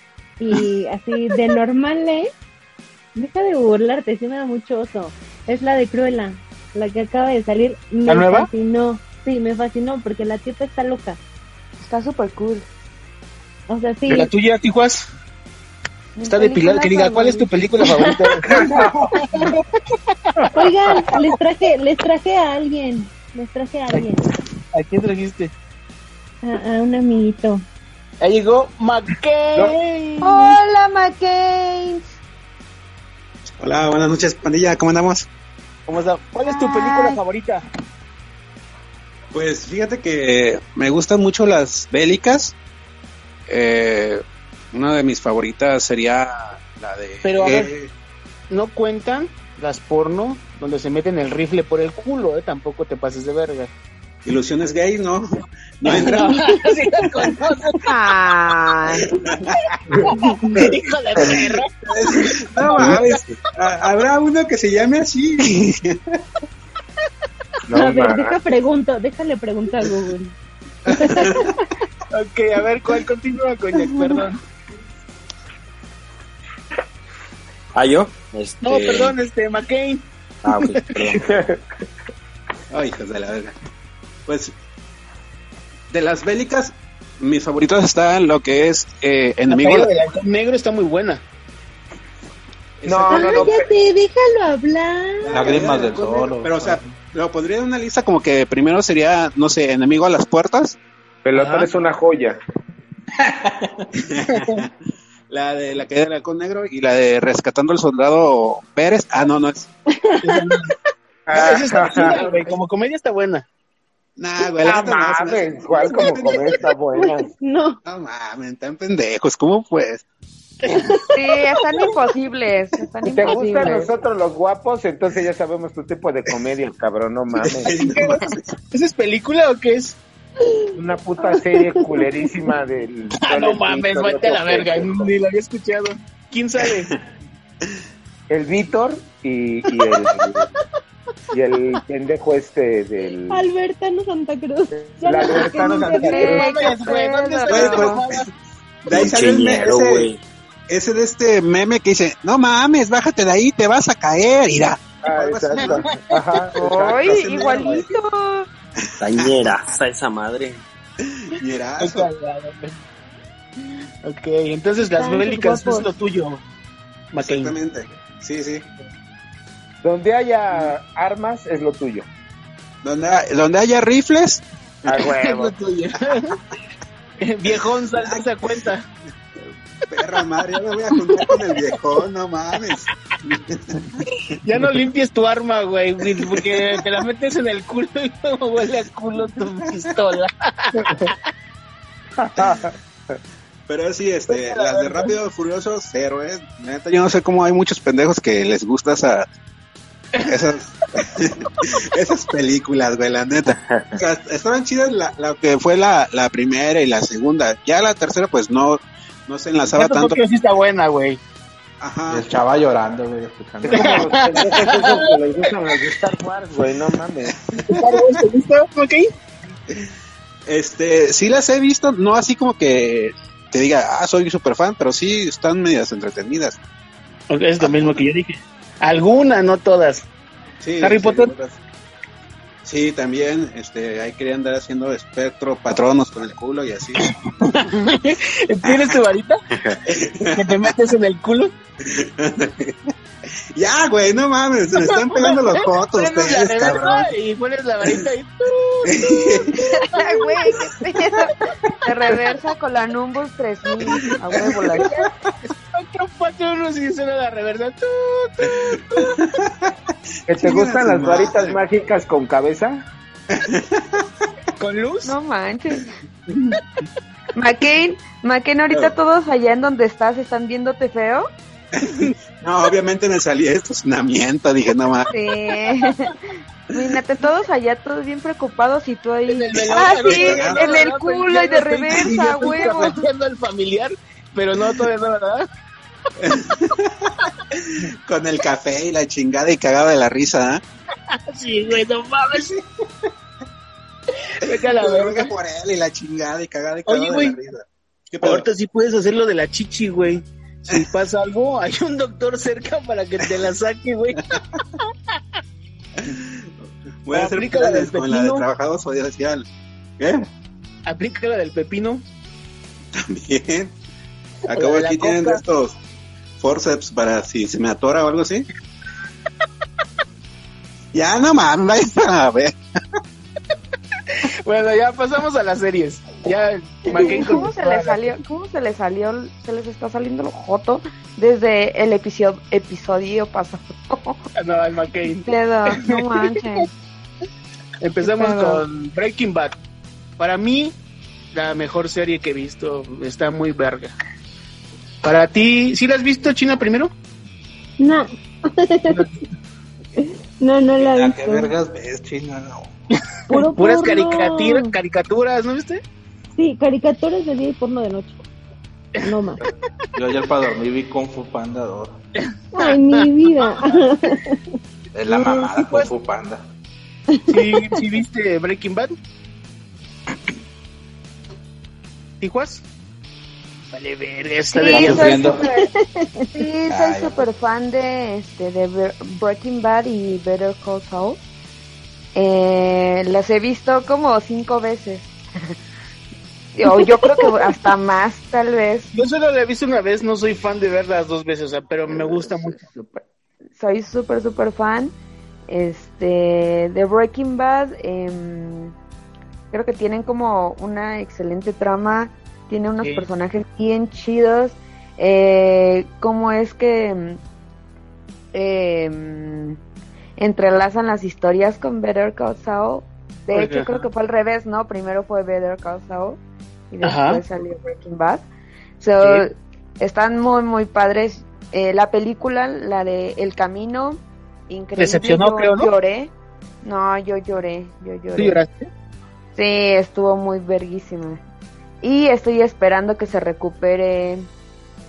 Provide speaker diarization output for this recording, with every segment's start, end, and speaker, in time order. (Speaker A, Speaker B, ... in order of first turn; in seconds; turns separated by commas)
Speaker A: 0.4-2.3, Speaker A: 3.1-11.2, Speaker B: 8.1-8.5, Speaker C: 11.8-12.7, Speaker A: 13.7-14.3, Speaker B: 14.1-15.0, Speaker C: 16.1-17.5, Speaker B: 16.3-20.5, Speaker A: 20.5-24.3, Speaker B: 23.9-25.5, Speaker A: 26.4-27.6, Speaker B: 28.2-30.4, Speaker C: 30.2-32.0, Speaker D: 33.6-35.3, Speaker B: 35.9-37.6, Speaker C: 36.5-37.1, Speaker D: 39.3-42.5, Speaker D: 43.5-47.9, Speaker B: 47.2-47.7, Speaker B: 48.5-53.7, Speaker D: 54.2-56.5, Speaker B: 55.9-57.9, Speaker C: 57.9-59.1, Speaker D: 59.0-59.5, Speaker B: 59.6-63.2, Speaker D: 61.2-66.0, Speaker E: 67.7-68.4, Speaker A: 67.7-70.3, Speaker A: 70.9-71.5, Speaker D: 70.9-71.5, Speaker B: 72.1-74.4, Speaker F: 77.7-79.1, Speaker B: 78.6-81.1, Speaker F: 80.4-81.3, Speaker E: 81.2-81.6, Speaker D: 82.7-83.5, Speaker D: 84.3-84.5, Speaker D: 85.9-89.9, Speaker B: 89.5-91.2, Speaker D: 92.8-93.5, Speaker E: 92.8-93.7, Speaker A: 93.1-95.5, Speaker D: 95.2-100.8, Speaker G: 95.3-96.9, Speaker E: 101.2-102.4, Speaker B: 101.3-101.7, Speaker G: 103.2-103.9, Speaker D: 104.1-104.7, Speaker D: 105.3-109.7, Speaker A: 110.0-110.4, Speaker B: 110.2-110.7, Speaker E: 111.3-112.5, Speaker B: 111.3-113.4, Speaker D: 111.9-112.1, Speaker D: 114.2-116.6, Speaker E: 114.6-117.3, Speaker A: 117.0-117.8, Speaker D: 117.8-120.0, Speaker B: 120.6-121.2, Speaker C: 121.1-123.9, Speaker E: 123.1-127.9, Speaker D: 127.4-128.4, Speaker B: 127.9-130.0, Speaker E: 130.8-135.1, Speaker A: 131.2-131.8, Speaker B: 133.2-136.9, Speaker E: 138.3-140.5, Speaker E: 141.3-143.4, Speaker A: 143.3-146.4, Speaker E: 144.8-146.6, Speaker B: 145.6-148.3, Speaker C: 146.0-148.0, Speaker D: 147.5-148.3, Speaker D: 148.8-150.1, Speaker F: 148.9-150.2, Speaker D: 150.7-155.9, Speaker E: 155.0-157.8, Speaker B: 155.6-156.0, Speaker D: 156.5-157.9, Speaker C: 156.7-158.5, Speaker F: 159.0-160.6, Speaker D: 161.0-162.1, Speaker B: 161.8-162.8, Speaker B: 164.0-166.4, Speaker A: 165.0-165.9, Speaker B: 167.1-167.5, Speaker D: 167.2-168.7, Speaker E: 169.8-172.1, Speaker D: 172.8-174.9, Speaker E: 174.8-175.5, Speaker B: 175.0-176.4, Speaker B: 177.2-178.8, Speaker D: 177.4-178.5, Speaker D: 179.9-183.9, Speaker B: 184.3-191.1, Speaker D: 186.2-186.8, Speaker E: 192.2-192.7, Speaker D: 192.4-192.7, Speaker D: 193.7-199.3, Speaker B: 194.3-195.1, Speaker D: 200.2-210.2, Speaker F: 203.5-203.9, Speaker B: 209.7-211.2, Speaker D: 211.8-212.3, Speaker G: 212.1-214.1, Speaker E: 213.6-217.3, Speaker B: 213.7-215.1, Speaker D: 217.4-218.1, Speaker B: 217.7-219.1, Speaker D: 220.5-226.6, Speaker B: 227.3-230.1, Speaker D: 227.6-228.0, Speaker D: 230.6-231.6, Speaker B: 230.8-231.3, Speaker D: 232.6-237.0, Speaker B: 237.0-239.4, Speaker D: 238.7-238.9, Speaker D: 239.9-240.7, Speaker B: 240.3-241.5, Speaker D: 241.9-242.8, Speaker D: 243.6-247.1, Speaker B: 244.8-250.2, Speaker D: 248.9-249.6, Speaker C: 249.8-255.1, Speaker D: 253.8-255.0, Speaker B: 255.7-259.1, Speaker D: 258.6-259.7, Speaker E: 260.3-262.8, Speaker D: 260.3-261.6, Speaker D: 263.3-264.0, Speaker B: 264.6-265.1, Speaker C: 265.0-265.9, Speaker C: 267.3-271.3, Speaker D: 271.8-275.1, Speaker C: 275.1-276.2, Speaker C: 276.7-283.0, Speaker B: 279.3-285.4, Speaker D: 280.0-280.8, Speaker D: 286.2-287.1, Speaker D: 288.1-290.6, Speaker B: 291.1-292.5, Speaker B: 294.4-295.3, Speaker D: 294.5-298.4, Speaker B: 296.9-297.4, Speaker B: 298.2-304.2, Speaker D: 307.1-309.4, Speaker B: 307.1-308.4, Speaker D: 310.0-310.3, Speaker B: 310.9-312.0, Speaker D: 312.9-313.7, Speaker D: 314.5-315.7, Speaker B: 314.5-315.4, Speaker D: 316.4-318.5, Speaker D: 320.9-322.6, Speaker B: 324.1-328.2, Speaker C: 326.8-334.2, Speaker B: 334.4-336.5, Speaker C: 335.2-336.7, Speaker B: 337.8-339.6, Speaker C: 338.0-338.6, Speaker B: 340.2-340.7, Speaker B: 341.3-343.9, Speaker B: 345.0-346.9, Speaker A: 347.8-349.1, Speaker A: 350.0-351.5, Speaker G: 350.8-352.8, Speaker A: 353.3-354.7, Speaker B: 353.3-355.8, Speaker A: 356.4-358.2, Speaker A: 359.0-359.4, Speaker G: 359.9-362.0, Speaker B: 362.2-363.0, Speaker A: 362.6-364.4, Speaker G: 364.9-366.4, Speaker B: 365.1-365.9, Speaker A: 367.1-367.8, Speaker B: 367.3-368.9, Speaker B: 372.2-372.6, Speaker B: 373.7-375.4, Speaker C: 374.5-375.7, Speaker G: 374.7-375.4, Speaker A: 375.6-376.3, Speaker C: 376.3-381.2, Speaker G: 376.7-377.3, Speaker C: 382.1-385.1, Speaker C: 386.5-388.9, Speaker B: 388.9-392.6, Speaker C: 391.9-393.0, Speaker C: 393.6-394.9, Speaker C: 395.5-398.7, Speaker C: 399.5-407.2, Speaker B: 402.8-403.1, Speaker C: 408.3-409.6, Speaker C: 410.2-418.2, Speaker B: 413.3-413.8, Speaker B: 416.8-417.2, Speaker C: 418.8-426.1, Speaker B: 419.0-419.2, Speaker B: 424.8-425.7, Speaker C: 426.6-428.4, Speaker B: 428.1-428.7, Speaker C: 429.4-431.2, Speaker C: 431.8-434.3